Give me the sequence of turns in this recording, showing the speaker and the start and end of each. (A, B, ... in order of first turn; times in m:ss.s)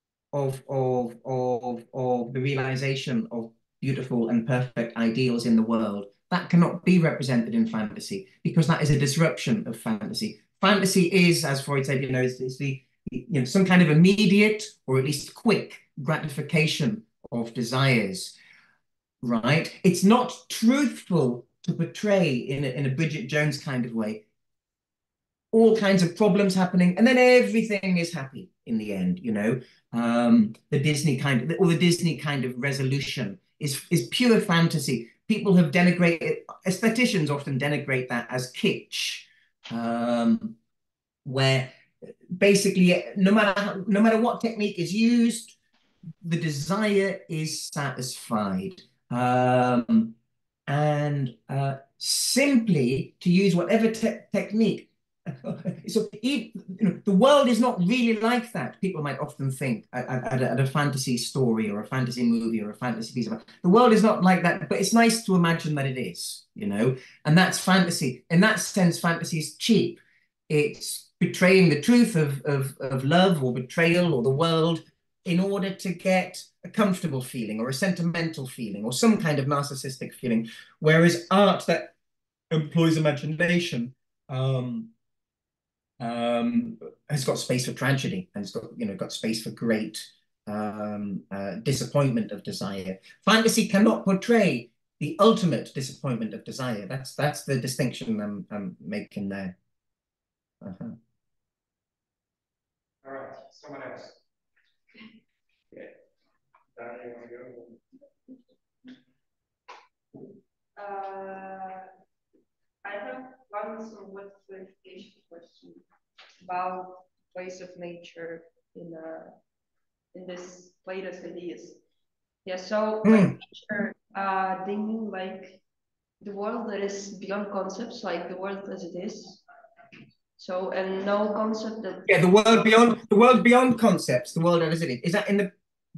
0:00.3-0:18.3 A
0:19.2-0:24.2 A
0:25.5-0:40.6 A
0:41.2-0:41.7 A
0:42.3-0:45.5 A
0:46.2-0:50.1 A
0:50.7-1:21.9 A
1:22.5-1:24.9 A
1:26.0-1:39.6 A
1:40.6-1:41.0 A
1:43.0-1:44.2 B
1:46.8-1:47.8 B
1:50.8-1:51.9 C
1:52.8-1:55.8 C
1:56.4-1:59.4 C
2:00.1-2:01.8 C
2:02.4-2:05.6 C
2:03.0-2:03.3 A
2:06.2-2:09.4 C
2:10.4-2:12.7 C
2:12.1-2:15.5 A